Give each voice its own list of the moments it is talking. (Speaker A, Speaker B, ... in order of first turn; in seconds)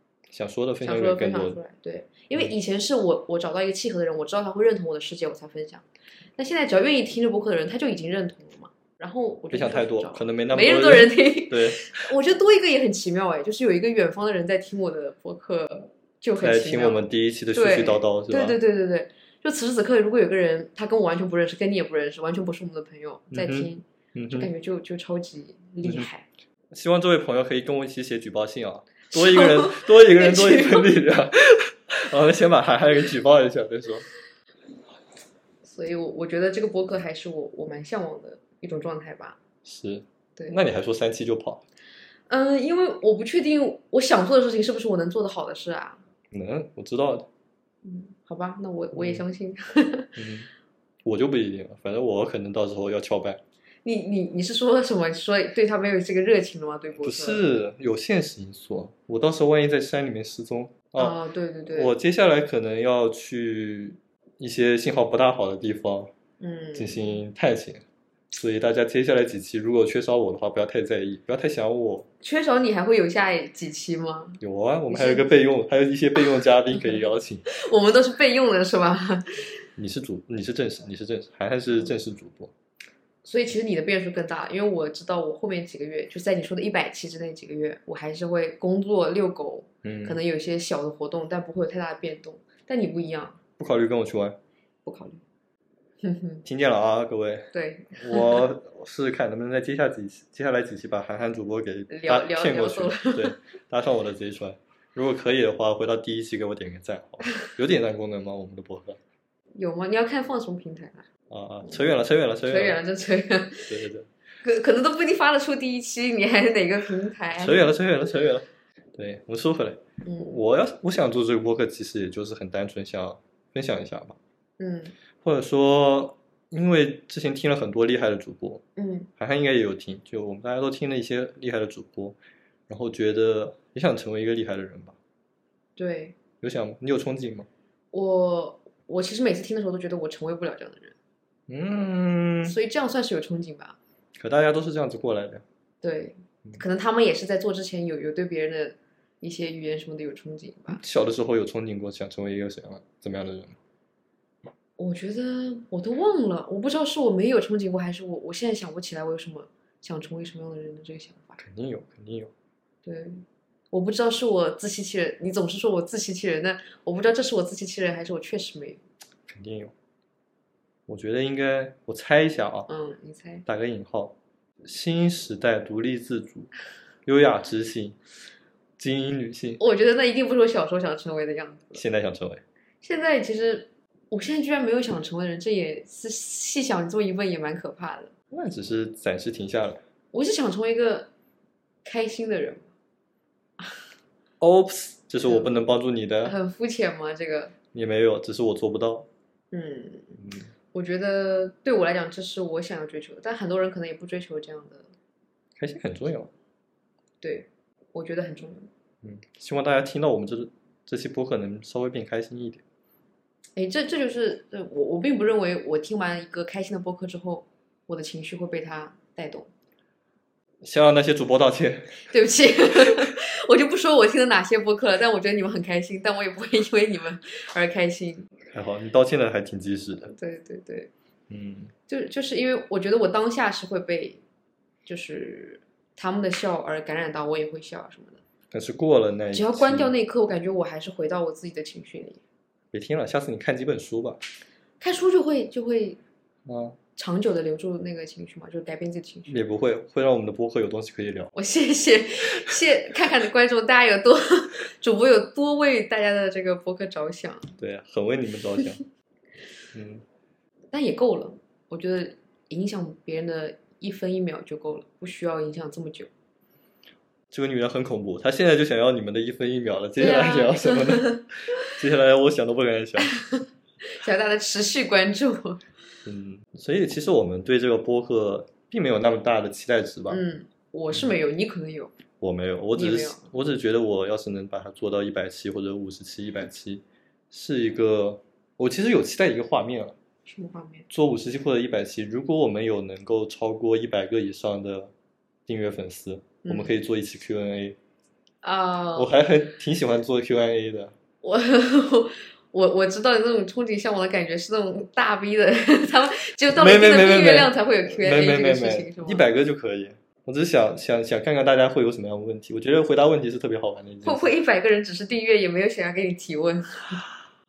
Speaker A: 0.3-1.6, 9.5-12.1, 16.4-18.6, 23.3-24.5, 25.8-26.1, 26.7-34.1, 39.6-41.6, 46.3-47.3, 48.9-49.2, 50.1-50.5, 51.0-53.4, 57.0-61.1, 61.7-66.1, 66.7-72.1, 74.4-77.4, 79.8-82.5, 89.8-90.2, 93.6-94.4, 96.4-109.0, 111.3-112.8, 113.7-114.1, 117.3-124.2, 125.2-128.6, 129.2-132.2, 132.7-134.9, 136.4-137.5, 141.5-142.6, 144.2-145.4, 150.7-153.6, 161.4-162.3, 169.3-169.7, 170.9-172.7, 173.4-176.5, 177.0-178.0, 178.8-179.6, 181.7-182.4, 188.3-189.8, 194.4-196.3, 197.7-199.1, 200.2-200.5, 205.6-206.3, 209.0-212.6, 220.6-222.1, 228.5-230.1, 231.3-231.7, 238.5-239.9, 242.7-244.2, 246.4-246.8, 249.3-251.3, 257.6-258.8, 259.7-260.0, 267.3-273.1, 276.1-280.2, 282.2-289.9, 290.9-294.9, 295.5-297.8, 298.9-300.9, 306.5-314.3
Speaker B: 0.8-5.8, 6.4-26.2, 29.1-30.9, 35.6-39.4, 42.3-46.0, 47.8-50.2, 53.8-57.4, 61.0-61.9, 66.4-67.2, 72.2-75.3, 76.8-79.5, 83.2-93.4, 94.8-95.2, 96.0-96.4, 97.5-98.5, 101.9-103.3, 109.5-111.0, 112.4-113.8, 114.4-117.8, 120.0-120.4, 124.6-124.9, 128.8-129.1, 135.8-136.2, 137.9-140.9, 142.4-143.8, 145.8-150.8, 154.8-161.4, 162.8-168.8, 172.7-173.4, 179.6-181.8, 182.8-188.1, 190.1-191.1, 191.8-192.7, 196.2-197.5, 199.5-200.2, 200.7-204.9, 207.2-208.7, 213.6-219.5, 222.1-228.3, 230.1-230.9, 231.9-234.2, 234.8-238.2, 239.3-242.2, 244.8-246.0, 246.9-249.4, 251.3-257.5, 260.7-266.1, 270.0-271.2, 273.0-275.6, 280.1-281.9, 282.7-283.3, 290.2-290.9, 296.4-296.7, 298.4-299.1, 301.2-309.2, 314.0-317.0